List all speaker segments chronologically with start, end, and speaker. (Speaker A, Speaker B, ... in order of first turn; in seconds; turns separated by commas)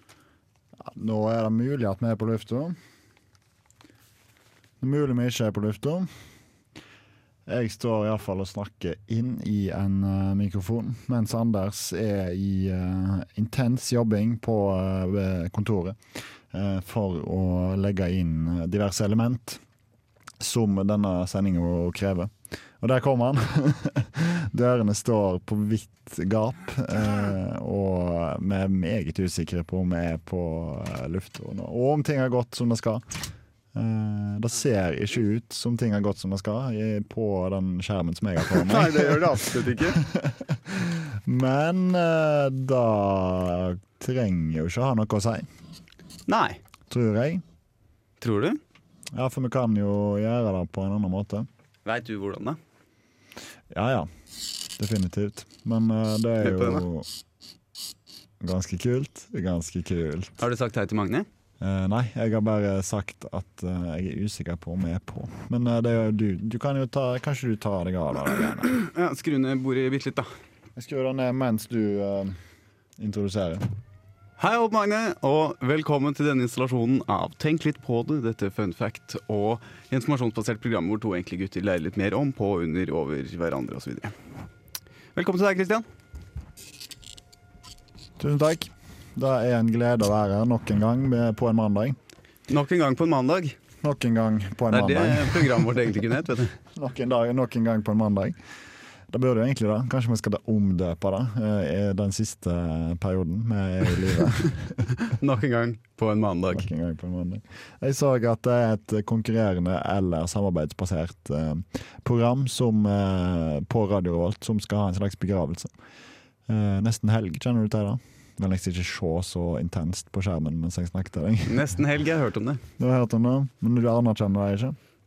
Speaker A: 0.8-2.8, Speaker A: 4.8-6.1, Speaker A: 7.5-16.0, Speaker A: 16.5-19.6, Speaker A: 20.4-33.0, Speaker A: 33.7-45.5, Speaker B: 38.5-40.0, Speaker B: 46.3-46.6, Speaker A: 46.9-47.4, Speaker B: 48.2-48.6, Speaker A: 49.1-51.5, Speaker B: 51.9-52.6, Speaker A: 53.7-54.1, Speaker A: 54.8-57.1, Speaker B: 56.4-56.9, Speaker A: 58.4-60.5, Speaker B: 60.4-61.3, Speaker A: 61.6-68.7, Speaker B: 68.7-70.3, Speaker A: 70.8-72.4, Speaker A: 73.0-73.7, Speaker B: 74.4-84.1, Speaker B: 85.2-85.9, Speaker A: 88.2-92.0, Speaker B: 92.5-93.6, Speaker A: 93.8-95.9, Speaker B: 94.7-96.5, Speaker A: 96.8-98.4, Speaker A: 99.1-104.9, Speaker B: 105.0-106.7, Speaker A: 106.5-115.7, Speaker A: 116.5-121.8, Speaker B: 121.5-122.6, Speaker A: 122.8-124.8